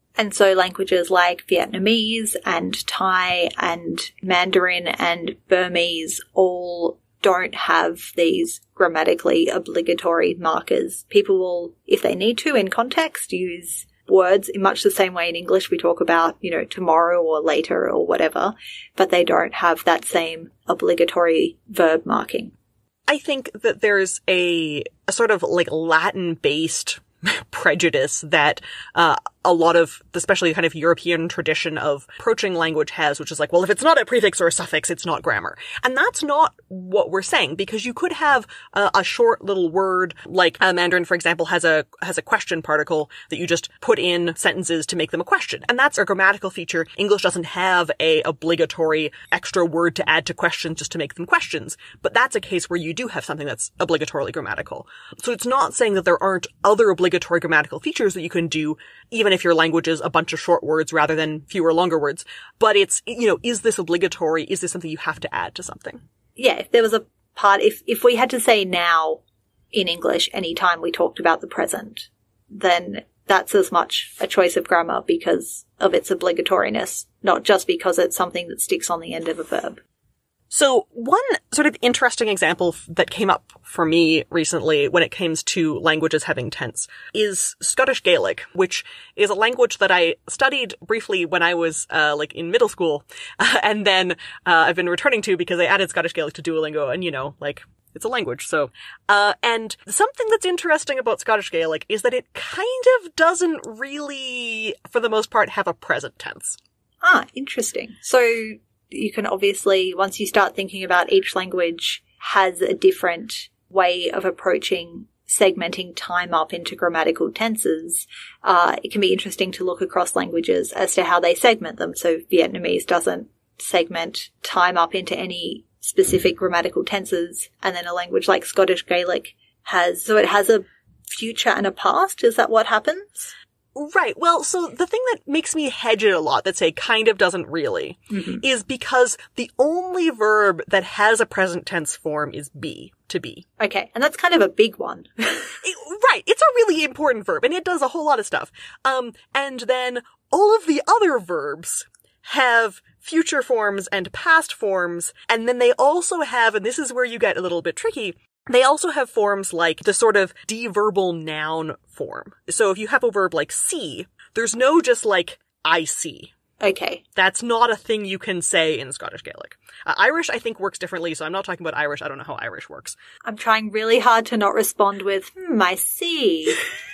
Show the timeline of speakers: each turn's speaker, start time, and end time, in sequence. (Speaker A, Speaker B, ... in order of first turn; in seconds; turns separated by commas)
Speaker A: 0.2-22.5, Speaker B: 23.1-66.0, Speaker A: 66.4-69.2, Speaker A: 69.7-79.8, Speaker B: 80.5-106.6, Speaker A: 107.0-133.3, Speaker B: 133.8-143.4, Speaker A: 138.1-138.4, Speaker A: 143.6-145.6, Speaker B: 145.6-166.3, Speaker A: 166.6-167.0, Speaker B: 167.2-173.0, Speaker A: 173.2-176.6